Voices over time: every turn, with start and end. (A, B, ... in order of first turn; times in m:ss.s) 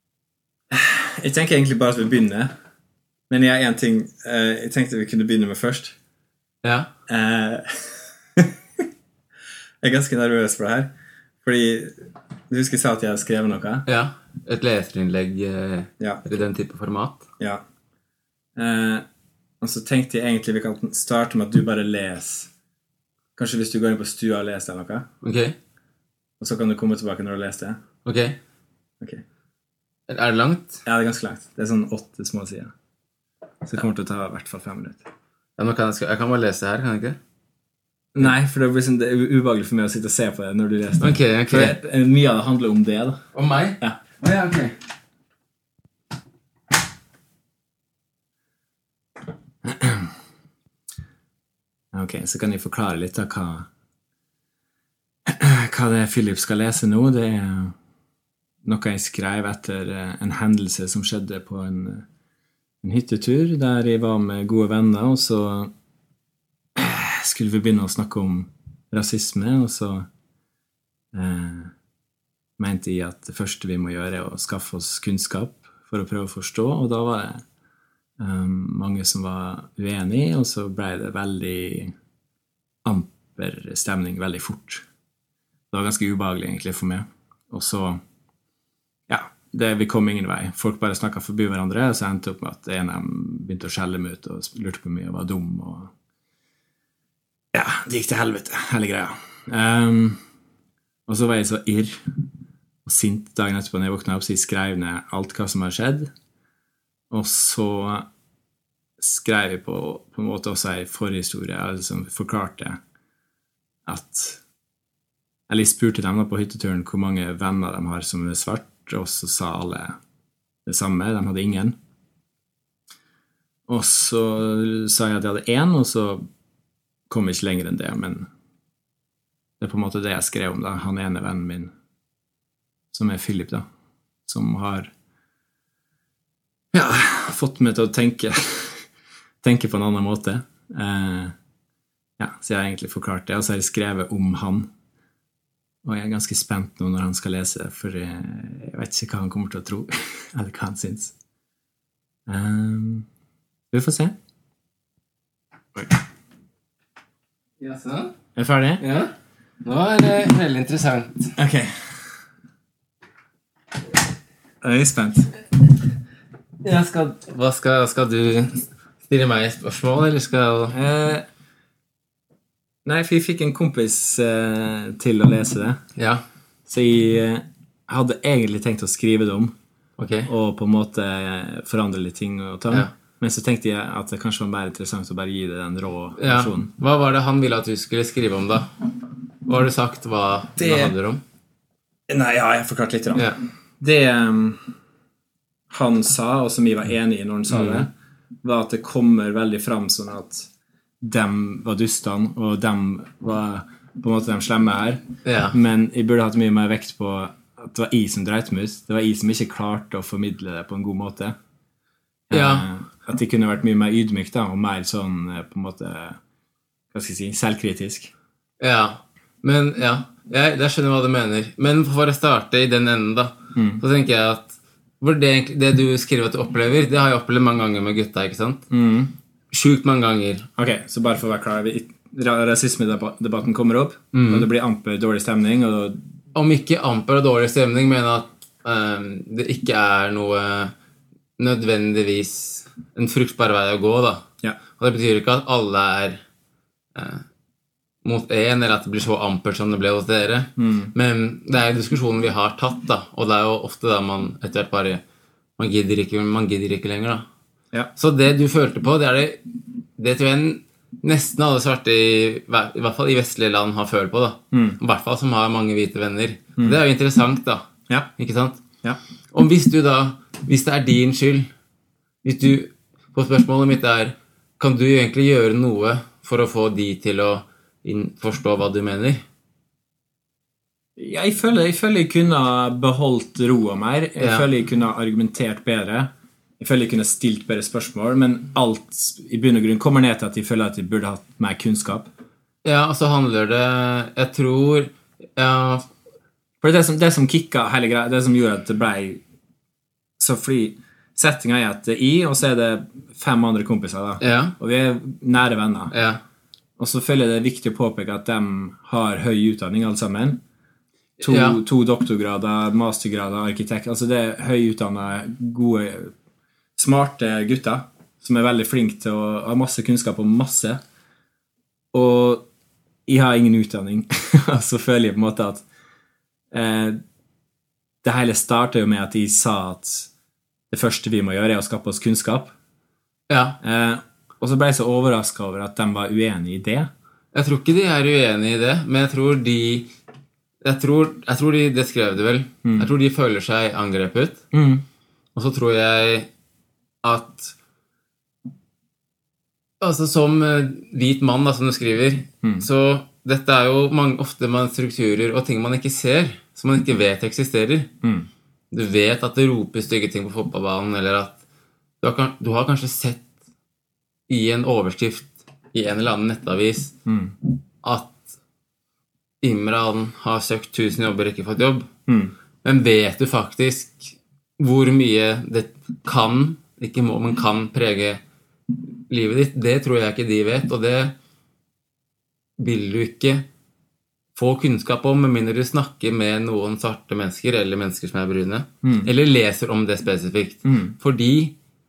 0:00.7-0:02.5 A
0:03.3-0:06.0 A
0:06.6-0:06.9 B
0:07.1-0:08.8 A
0:09.8-0:10.9 A
0:11.4-0:13.9 A
0:13.9-0:17.3 B
0:18.6-0:19.0 A
0:19.6-0:22.5 A
0:23.4-0:25.1 A
0:25.2-0:25.6 B
0:26.4-0:27.8 A
0:28.0-0:28.4 B
0:30.1-0:30.8 B
0:30.8-0:32.7 A
0:33.6-0:35.1 A
0:35.6-0:37.2 B
0:38.1-0:43.2 A
0:41.0-0:41.7 B
0:43.3-0:44.8 B
0:49.6-0:50.1 A
0:51.9-0:53.7 A
0:55.3-0:57.7 A
0:58.6-1:02.0 A
1:02.8-1:05.7 A
1:06.8-1:10.1 A
1:11.1-1:11.7 A
1:12.6-1:17.4 A
1:18.2-1:21.9 A
1:22.8-1:24.8 A
1:25.7-1:28.0 A
1:29.1-1:35.9 A
1:37.5-1:40.2 A
1:41.1-1:42.0 A
1:42.8-1:46.1 A
1:47.1-1:48.0 A
1:49.0-1:52.8 A
1:53.9-1:54.4 A
1:55.5-2:00.0 A
2:00.7-2:01.8 A
2:03.7-2:06.2 A
2:07.1-2:08.3 A
2:09.6-2:11.7 A
2:12.9-2:13.6 A
2:14.3-2:14.9 A
2:16.7-2:18.8 A
2:19.4-2:21.3 A
2:22.2-2:24.7 A
2:25.8-2:31.1 A
2:32.3-2:33.1 A
2:33.7-2:34.1 A
2:37.6-2:38.1 B
2:38.4-2:38.8 A
2:38.8-2:41.4 B
2:41.4-2:42.0 A
2:44.6-2:45.4 A
2:46.6-2:50.8 B
2:50.7-2:51.3 A
2:52.8-2:55.8 A
2:56.0-2:56.2 B
2:56.7-2:59.5 A
3:00.0-3:00.3 B
3:00.3-3:06.7 A
3:06.2-3:08.7 B
3:09.4-3:11.2 B
3:10.6-3:10.9 A
3:12.1-3:14.7 A
3:15.7-3:17.9 A
3:17.5-3:17.9 B
3:18.4-3:20.5 A
3:21.0-3:31.4 A
3:25.2-3:25.6 B
3:32.3-3:36.2 A
3:32.3-3:32.7 B
3:36.9-3:38.1 A
3:38.6-3:48.7 B
3:43.6-3:43.8 A
3:48.7-3:49.1 A
3:49.5-3:50.5 B
3:50.6-3:56.0 A
3:54.1-3:54.5 B
3:56.3-4:00.7 B
4:01.4-4:06.2 B
4:07.0-4:07.2 B
4:08.0-4:15.0 B
4:10.6-4:10.9 A
4:15.6-4:17.2 B
4:18.0-4:19.4 B
4:20.0-4:27.6 B
4:24.5-4:24.8 A
4:28.2-4:28.6 B
4:29.3-4:31.5 B
4:32.2-4:39.2 B
4:41.0-4:52.1 A
4:44.2-4:44.5 B
4:52.6-4:55.9 B
4:56.6-4:59.2 A
5:00.2-5:05.9 A
5:04.2-5:04.6 B
5:05.9-5:06.2 B
5:06.8-5:10.4 A
5:11.2-5:11.6 B
5:11.2-5:16.1 A
5:16.8-5:20.8 A
5:21.9-5:22.4 A
5:23.1-5:25.6 A
5:26.5-5:27.0 A
5:28.0-5:30.1 A
5:30.7-5:32.5 A
5:33.3-5:33.6 B
5:33.6-5:36.9 A
5:37.3-5:39.9 B
5:40.6-5:44.5 B
5:44.5-5:44.8 A
5:45.4-5:46.3 B
5:47.0-5:47.6 B
5:49.8-5:57.9 B
5:52.4-5:52.7 A
5:58.0-5:58.3 A
5:58.7-6:01.4 B
6:02.0-6:03.2 B
6:04.3-6:06.9 B
6:07.1-6:07.4 A
6:07.8-6:08.3 B
6:09.4-6:11.9 B
6:12.1-6:12.3 A
6:12.6-6:18.2 B
6:18.9-6:21.2 B
6:22.6-6:23.5 B
6:24.4-6:31.6 B
6:28.8-6:29.1 A
6:30.6-6:30.9 A